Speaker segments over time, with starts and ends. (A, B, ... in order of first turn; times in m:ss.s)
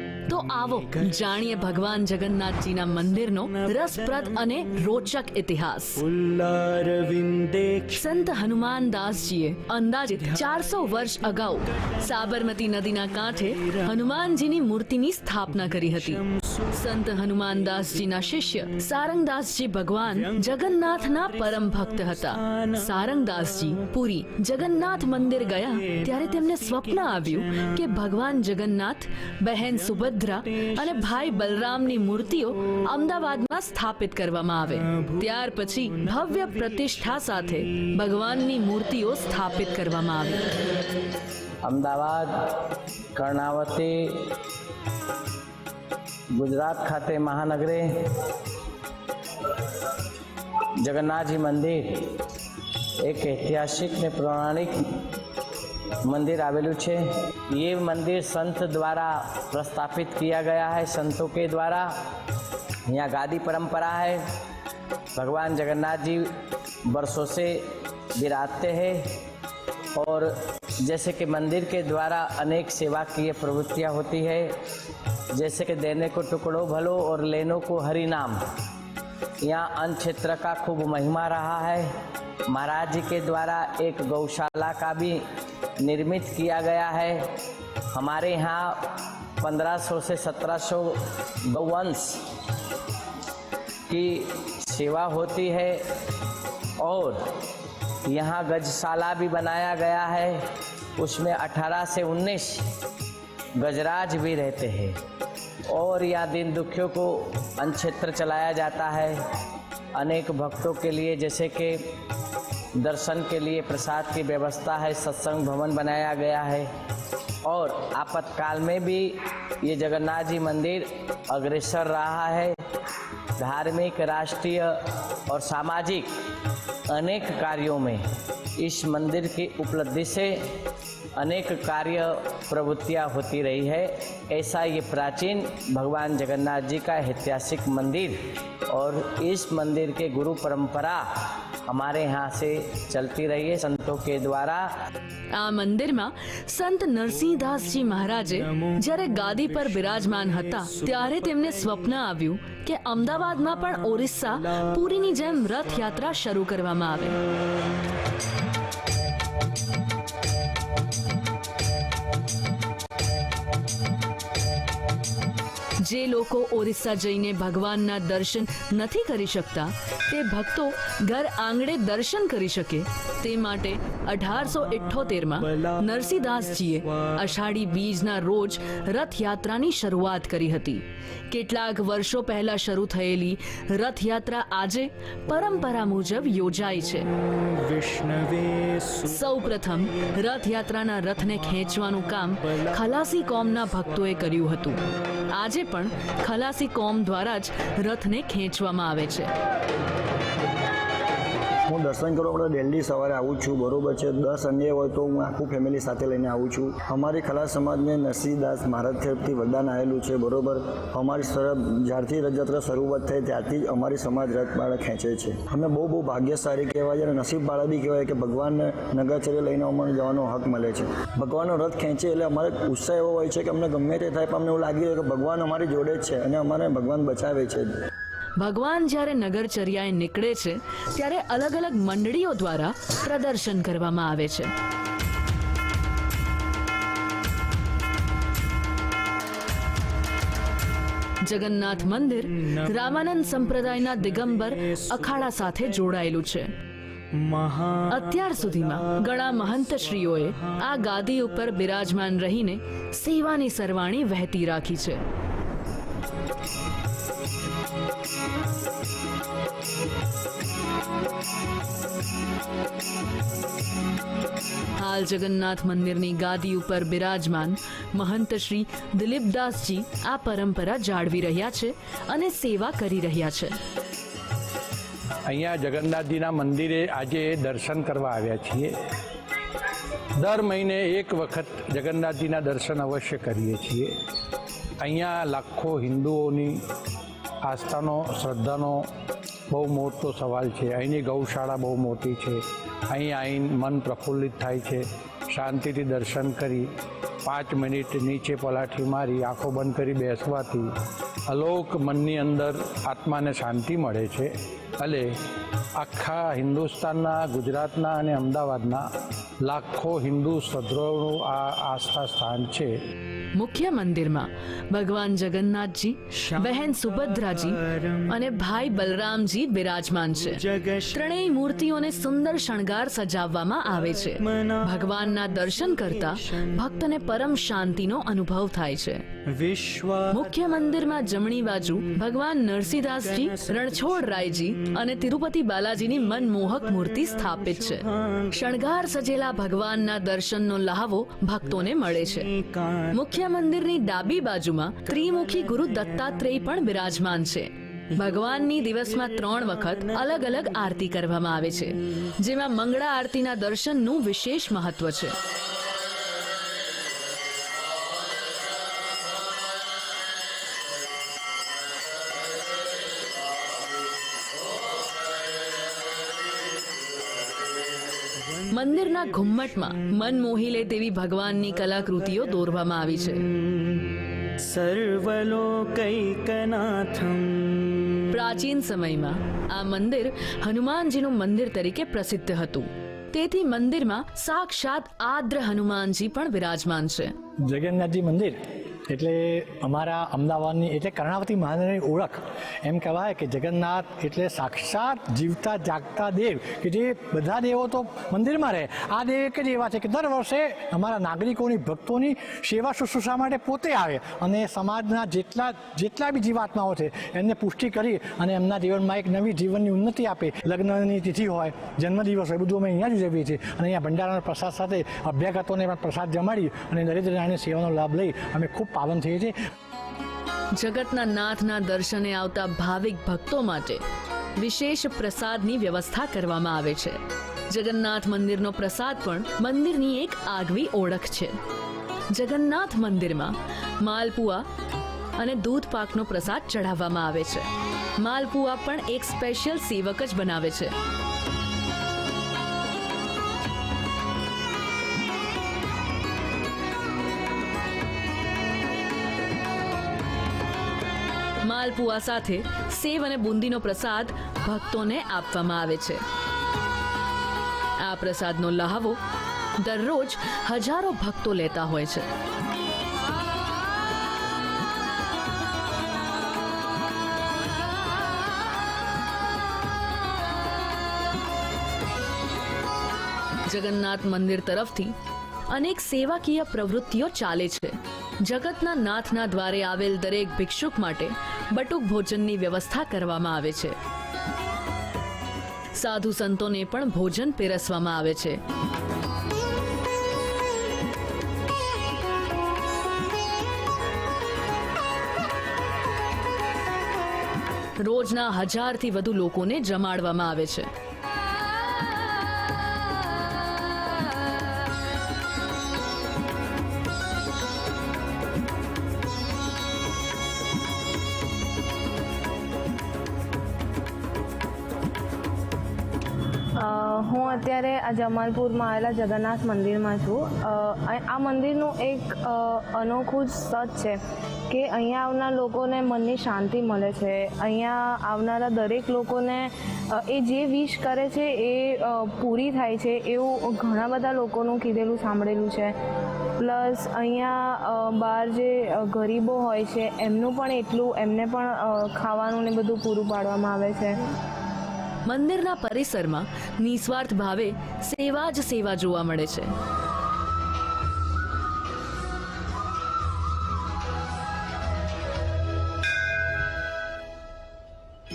0:00.2-0:06.0 A
0:00.9-0:01.4 B
0:03.5-0:04.4 B
0:06.0-0:08.0 B
0:07.9-0:40.4 A
0:10.4-0:10.9 B
0:15.7-0:16.6 B
0:20.2-0:23.8 B
0:26.3-0:27.7 B
0:29.8-0:31.2 B
0:35.0-0:35.2 B
0:41.6-0:44.3 C
0:46.3-0:48.2 C
0:50.8-0:52.2 C
0:53.0-0:54.7 C
0:56.1-1:01.9 C
1:02.9-1:04.2 C
1:05.2-1:06.3 C
1:06.9-1:07.6 C
1:08.2-1:09.0 C
1:10.0-1:10.3 C
1:10.8-1:14.5 C
1:15.4-1:18.4 C
1:19.4-1:21.9 C
1:22.5-1:25.2 C
1:25.8-1:27.2 C
1:27.9-1:31.0 C
1:31.5-1:32.3 C
1:33.9-1:35.8 C
1:36.8-1:37.2 C
1:38.1-1:40.4 C
1:41.0-1:42.7 C
1:43.6-1:45.0 C
1:45.7-1:49.2 C
1:50.0-1:51.8 C
1:52.8-1:56.7 C
1:57.4-2:02.6 C
2:03.4-2:04.7 C
2:05.3-2:06.1 C
2:06.9-2:08.0 C
2:08.6-2:10.4 C
2:11.2-2:18.2 C
2:18.7-2:24.7 C
2:25.3-2:37.2 A
2:28.4-2:28.8 B
2:29.4-2:31.9 B
2:45.8-3:07.1 A
2:55.5-2:57.1 B
3:07.3-3:09.2 B
3:09.0-3:19.3 A
3:21.7-3:47.7 D
3:48.4-3:54.5 A
4:01.2-4:06.6 A
4:03.6-4:05.8 B
4:07.1-4:09.0 B
4:07.9-4:15.0 A
4:09.7-4:10.4 B
4:24.8-4:33.6 A
4:35.3-4:38.7 E
4:40.2-4:43.9 E
4:44.8-4:46.6 E
4:47.4-4:48.8 E
4:49.5-4:56.7 E
4:57.2-5:00.7 E
5:01.3-5:05.1 E
5:05.8-5:08.8 E
5:09.4-5:12.7 E
5:13.4-5:29.0 A
5:16.4-5:18.0 B
5:20.2-5:20.9 B
5:23.9-5:26.2 B
5:29.3-5:30.3 B
5:30.1-5:42.3 A
5:33.0-5:34.6 B
5:36.3-5:38.2 B
5:41.6-5:42.9 B
5:42.9-5:55.2 A
5:44.9-5:46.0 B
5:49.0-5:50.1 B
6:08.5-6:13.3 A
6:11.7-6:12.3 B
6:13.6-6:18.0 B
6:18.1-6:27.1 A
6:27.5-6:28.4 F
6:28.9-6:59.3 F
7:00.6-7:03.8 A
7:04.4-7:11.3 A
7:12.1-7:14.4 A
7:15.2-7:20.7 A
7:31.4-7:36.0 A
7:37.8-7:39.0 A
7:39.6-7:42.1 A
7:53.5-7:54.9 A
7:55.5-8:03.8 A
8:05.8-8:08.4 A
8:17.8-8:20.7 A
8:36.6-8:44.0 G
8:44.5-8:55.7 G
8:56.4-9:03.9 G
9:05.1-9:09.5 A